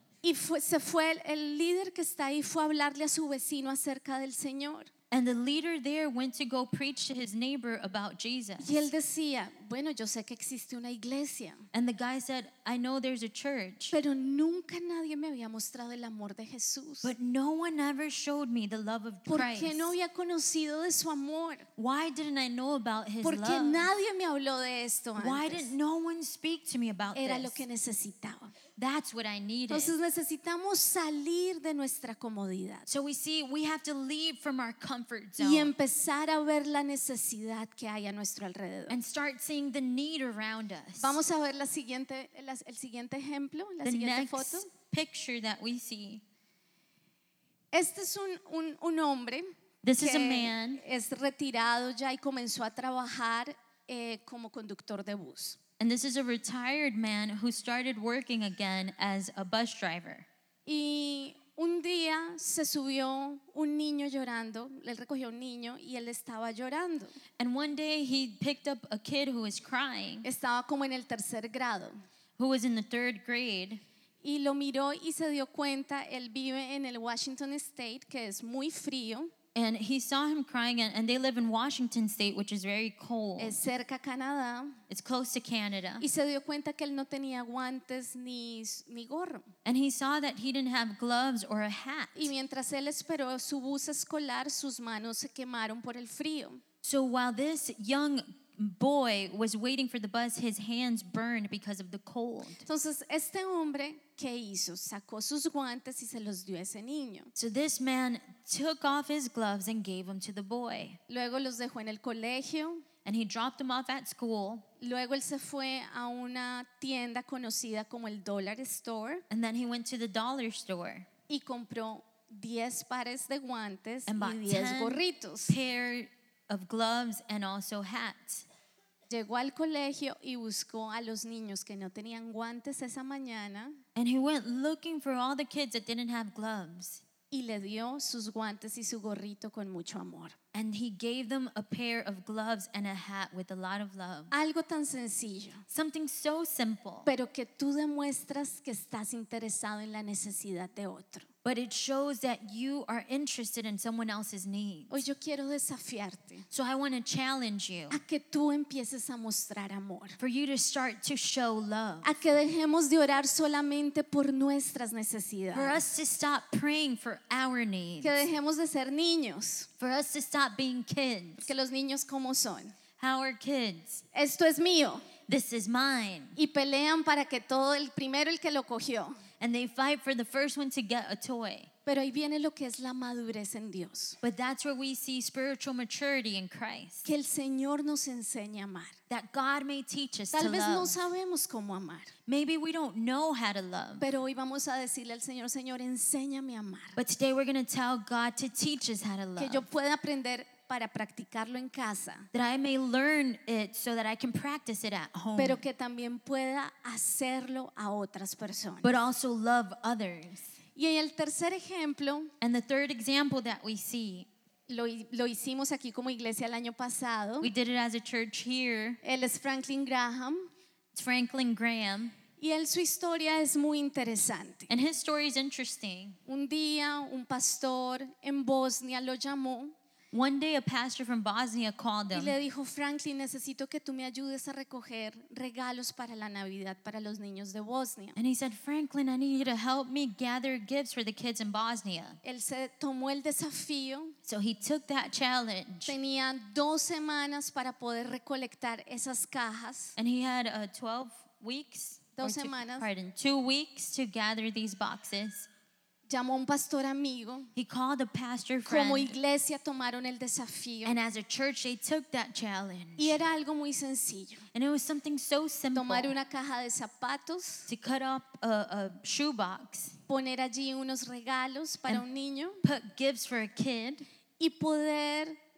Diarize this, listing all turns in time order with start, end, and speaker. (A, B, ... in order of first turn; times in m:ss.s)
0:00.2-0:04.9 A
0:05.1-0:08.8 B
0:08.6-0:11.6 A
0:11.7-0:14.0 B
0:13.9-0:17.1 A
0:17.0-0:19.9 B
0:19.3-0:21.7 A
0:21.8-0:23.9 B
0:23.2-0:25.7 A
0:25.2-0:27.6 B
0:27.1-0:28.5 A
0:28.8-0:30.0 B
0:29.7-0:32.9 A
0:32.9-0:35.7 B
0:35.4-0:39.0 A
0:38.9-0:41.2 B
0:41.0-0:44.7 A
0:43.8-0:46.2 B
0:47.7-0:55.6 A
0:49.8-0:50.8 B
0:55.8-1:00.3 B
1:00.6-1:07.2 A
1:07.4-1:10.2 B
1:10.2-1:11.9 A
1:12.4-1:13.8 B
1:14.2-1:19.3 A
1:19.5-1:23.6 B
1:23.4-1:24.8 A
1:24.9-1:26.0 B
1:26.0-1:29.5 A
1:29.6-1:32.3 B
1:32.1-1:36.6 A
1:36.8-1:42.6 B
1:42.6-1:47.3 A
1:47.4-1:51.0 B
1:51.1-1:52.8 A
1:53.0-1:54.6 B
1:54.8-1:59.2 A
1:59.3-2:01.1 B
2:01.3-2:05.6 A
2:04.1-2:08.4 B
2:09.1-2:13.8 A
2:13.9-2:17.0 B
2:17.3-2:20.4 A
2:20.5-2:24.3 B
2:24.3-2:25.6 A
2:25.7-2:27.1 B
2:27.0-2:31.3 A
2:31.4-2:35.0 B
2:34.9-2:36.4 A
2:36.5-2:38.0 B
2:37.9-2:40.2 A
2:40.2-2:42.1 B
2:42.0-2:45.8 A
2:45.5-2:48.3 B
2:48.0-2:49.7 A
2:49.8-2:51.5 B
2:51.4-2:52.8 A
2:53.0-2:54.0 B
2:54.1-2:55.0 A
2:55.3-2:56.4 B
2:56.4-2:59.2 A
2:59.4-3:01.7 B
3:01.8-3:04.2 A
3:04.2-3:07.1 B
3:07.0-3:09.0 A
3:09.1-3:11.0 B
3:10.3-3:12.1 A
3:12.3-3:14.0 B
3:14.0-3:17.0 A
3:17.0-3:19.6 B
3:19.4-3:22.3 A
3:22.3-3:25.6 B
3:25.4-3:28.9 A
3:28.8-3:30.5 B
3:30.8-3:32.3 A
3:32.4-3:34.3 B
3:34.7-3:37.5 A
3:37.4-3:39.0 B
3:39.0-3:40.5 A
3:40.9-3:42.1 B
3:42.4-3:44.7 A
3:44.7-3:46.2 B
3:46.3-3:49.7 A
3:50.1-3:52.3 B
3:52.1-3:58.2 A
3:58.2-4:02.2 B
4:02.2-4:04.2 A
4:04.2-4:06.0 B
4:05.8-4:10.0 A
4:10.0-4:15.5 B
4:12.2-4:12.9 A
4:16.1-4:17.5 A
4:17.5-4:19.2 B
4:18.6-4:21.0 A
4:20.8-4:23.2 B
4:23.0-4:24.4 A
4:24.5-4:26.1 B
4:25.7-4:27.7 A
4:27.7-4:30.0 B
4:30.1-4:32.6 A
4:32.6-4:34.0 B
4:34.4-4:35.4 A